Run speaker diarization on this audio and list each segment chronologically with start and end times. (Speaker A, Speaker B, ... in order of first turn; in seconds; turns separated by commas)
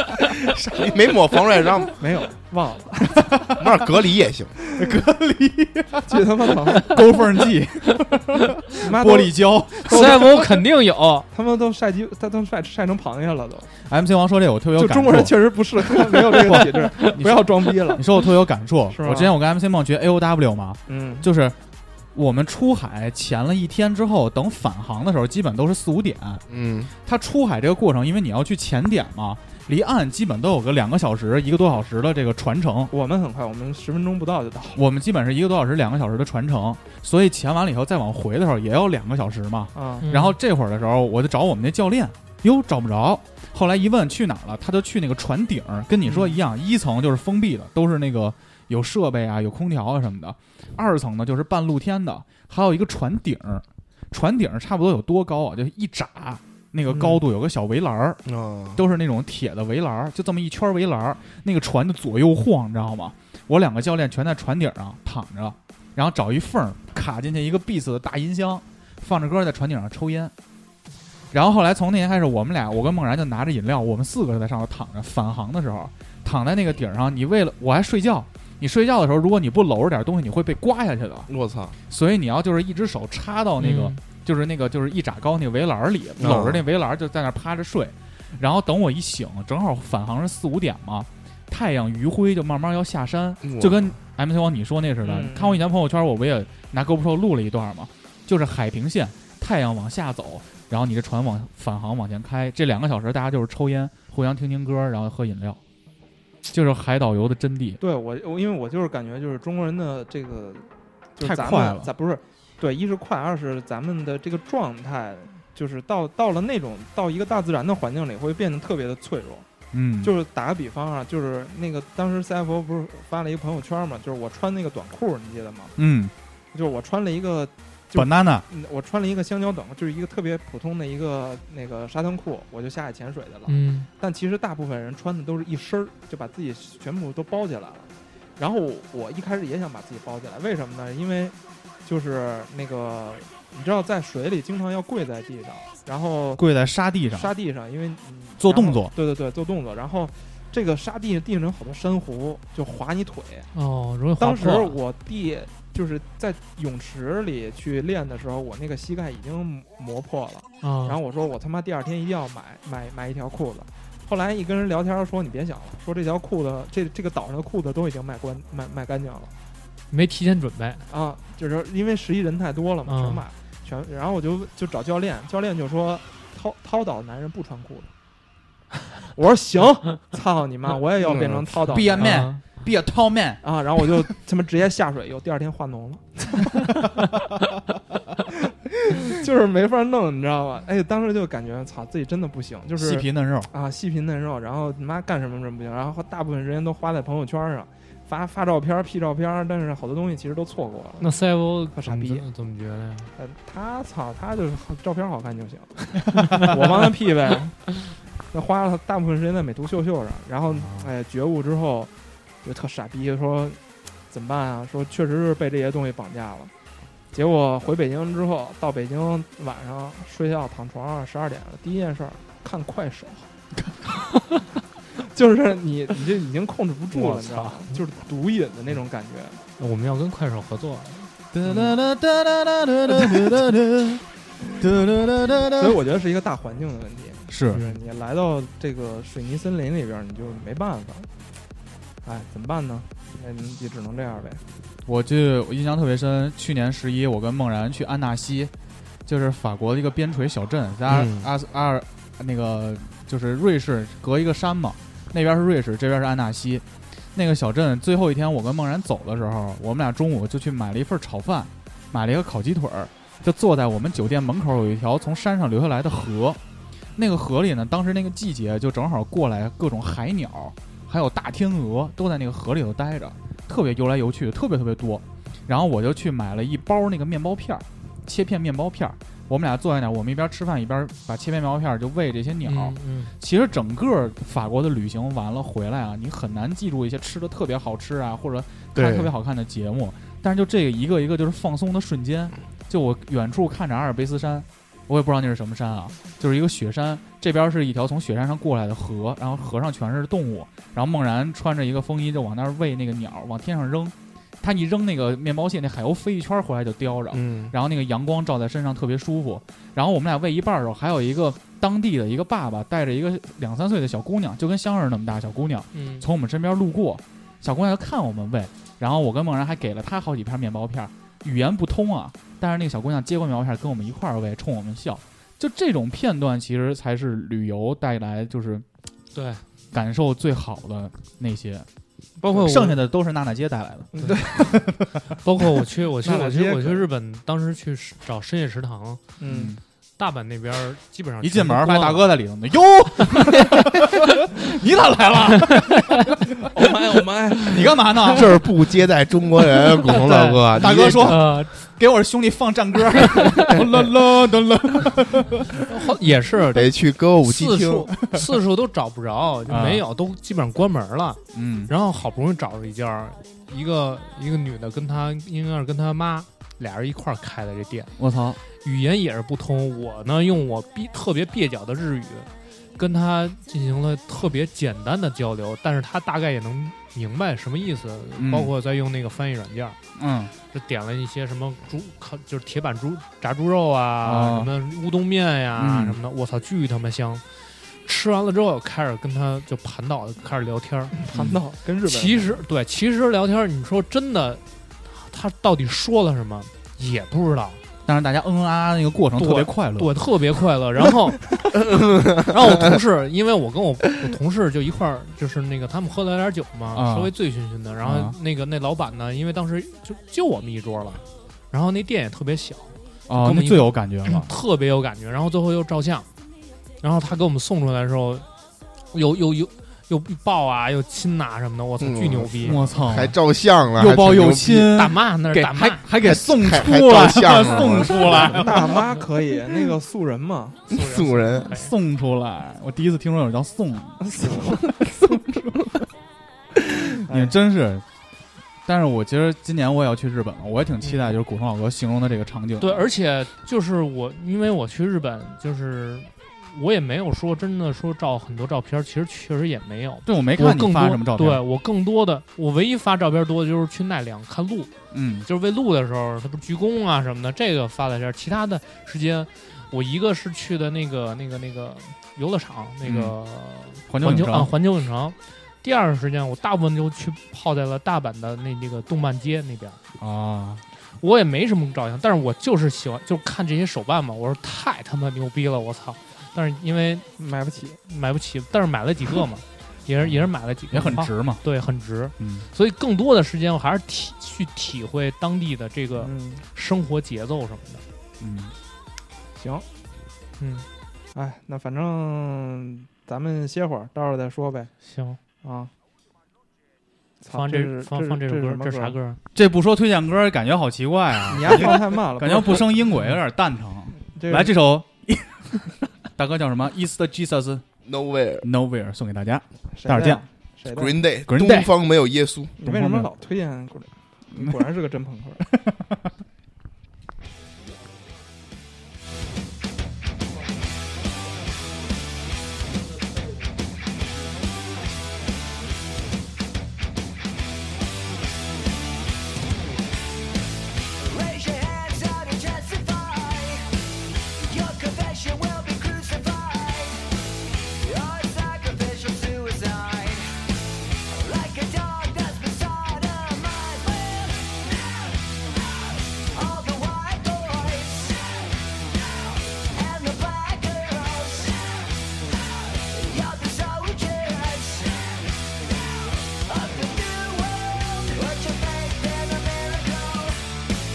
Speaker A: 0.2-1.9, Speaker B: 2.0-3.3, Speaker A: 3.5-4.5, Speaker C: 4.7-10.1, Speaker B: 6.1-7.0, Speaker B: 8.8-10.6, Speaker D: 9.9-11.3, Speaker B: 11.3-13.7, Speaker C: 13.8-21.6, Speaker B: 14.8-18.0, Speaker B: 18.9-19.3, Speaker B: 20.9-21.3, Speaker C: 22.1-26.4, Speaker A: 26.5-26.9, Speaker C: 27.0-32.9, Speaker B: 32.9-34.8, Speaker C: 34.8-58.2, Speaker B: 39.7-40.1, Speaker D: 40.0-40.4, Speaker B: 46.0-46.4, Speaker B: 56.9-57.2, Speaker A: 58.2-58.8, Speaker C: 58.7-70.3, Speaker C: 71.3-81.3, Speaker A: 81.3-81.7, Speaker C: 81.9-105.6, Speaker D: 83.6-84.0, Speaker A: 86.2-86.6, Speaker A: 93.4-93.9, Speaker B: 95.0-95.6, Speaker C: 106.5-107.8, Speaker B: 107.8-119.5, Speaker C: 111.2-111.9, Speaker C: 119.7-120.1, Speaker B: 120.0-125.7, Speaker C: 125.8-126.1, Speaker B: 126.5-146.4, Speaker C: 127.9-128.4, Speaker D: 133.5-133.9, Speaker C: 146.3-147.3, Speaker B: 147.1-153.5, Speaker C: 148.4-148.9, Speaker D: 153.5-154.8, Speaker B: 154.2-169.3, Speaker D: 160.6-161.0, Speaker D: 169.9-170.8, Speaker B: 170.9-177.9, Speaker D: 172.8-173.2, Speaker B: 179.1-182.1, Speaker A: 181.0-181.7, Speaker C: 181.7-183.4, Speaker D: 182.0-182.4, Speaker B: 183.4-186.8, Speaker B: 188.3-201.1, Speaker C: 192.8-193.5, Speaker D: 201.0-203.1, Speaker B: 201.7-202.2, Speaker B: 203.2-207.8, Speaker B: 208.3-211.9, Speaker C: 210.5-210.9, Speaker B: 212.4-213.6, Speaker B: 214.1-216.5, Speaker B: 217.1-223.3, Speaker B: 225.1-229.4, Speaker D: 226.9-227.7, Speaker D: 229.6-231.1, Speaker C: 231.3-234.0, Speaker B: 231.4-231.7, Speaker B: 233.0-233.3, Speaker C: 234.6-235.8, Speaker B: 235.5-241.1, Speaker C: 237.3-237.6, Speaker D: 237.5-237.8, Speaker B: 242.0-244.4, Speaker C: 244.9-248.5, Speaker C: 249.1-256.6, Speaker A: 250.9-251.3, Speaker C: 257.1-266.4, Speaker C: 267.0-328.6, Speaker D: 282.4-283.1, Speaker A: 288.7-289.1, Speaker A: 307.1-307.5, Speaker D: 315.7-316.1, Speaker D: 329.1-329.4, Speaker C: 329.7-331.7, Speaker D: 332.2-332.8, Speaker C: 332.3-334.9, Speaker B: 333.9-334.6, Speaker D: 335.2-339.0, Speaker B: 336.0-336.8, Speaker B: 339.2-339.5, Speaker C: 339.2-339.6, Speaker D: 340.0-342.1, Speaker C: 341.2-346.2, Speaker B: 346.5-348.2, Speaker C: 347.5-348.3, Speaker A: 348.1-351.3, Speaker C: 349.9-355.6, Speaker D: 351.0-351.5, Speaker D: 355.7-367.9, Speaker A: 356.5-357.9, Speaker C: 359.5-359.8, Speaker C: 361.3-361.7, Speaker C: 368.0-368.4, Speaker D: 368.6-379.8, Speaker C: 378.2-378.5, Speaker C: 380.0-380.3, Speaker D: 380.5-390.9, Speaker C: 384.0-384.5, Speaker C: 385.6-386.0, Speaker B: 391.0-392.4, Speaker C: 391.1-391.4, Speaker D: 391.8-397.6, Speaker C: 397.9-399.9, Speaker D: 399.2-401.2, Speaker A: 401.7-402.7, Speaker D: 402.2-416.1, Speaker C: 406.7-407.1, Speaker C: 407.8-408.1, Speaker C: 413.1-414.3, Speaker D: 416.8-418.2, Speaker D: 418.9-422.6, Speaker A: 421.8-424.7, Speaker C: 422.4-423.2, Speaker C: 423.7-428.8, Speaker D: 424.7-425.8, Speaker A: 426.0-428.4, Speaker B: 428.3-430.7, Speaker D: 430.7-431.7, Speaker A: 430.7-431.5, Speaker C: 431.5-434.6, Speaker B: 434.0-435.1, Speaker C: 436.9-437.8, Speaker B: 437.0-437.3, Speaker C: 438.6-442.9, Speaker D: 440.8-441.1, Speaker D: 442.6-454.7, Speaker C: 450.1-451.4, Speaker C: 454.9-455.3, Speaker D: 455.2-469.8, Speaker C: 462.8-463.1, Speaker C: 463.9-464.5, Speaker C: 470.0-470.6, Speaker D: 471.0-477.1, Speaker B: 477.2-477.8, Speaker D: 477.8-487.8, Speaker C: 480.7-481.4, Speaker C: 482.2-482.5, Speaker B: 486.0-486.4, Speaker C: 488.2-488.5, Speaker B: 489.4-489.6, Speaker D: 490.4-490.6, Speaker B: 491.1-494.7, Speaker D: 494.8-495.2, Speaker B: 495.4-495.7, Speaker B: 497.2-499.0, Speaker D: 497.3-499.2, Speaker C: 499.3-507.6, Speaker B: 501.3-502.7, Speaker B: 504.1-504.5, Speaker A: 507.8-508.5, Speaker C: 508.4-510.2, Speaker B: 509.8-511.0, Speaker A: 510.7-512.5, Speaker C: 511.3-511.7, Speaker B: 512.6-515.4, Speaker C: 512.6-513.1, Speaker E: 531.0-533.7, Speaker E: 534.4-537.0, Speaker E: 537.8-540.3, Speaker E: 541.1-560.4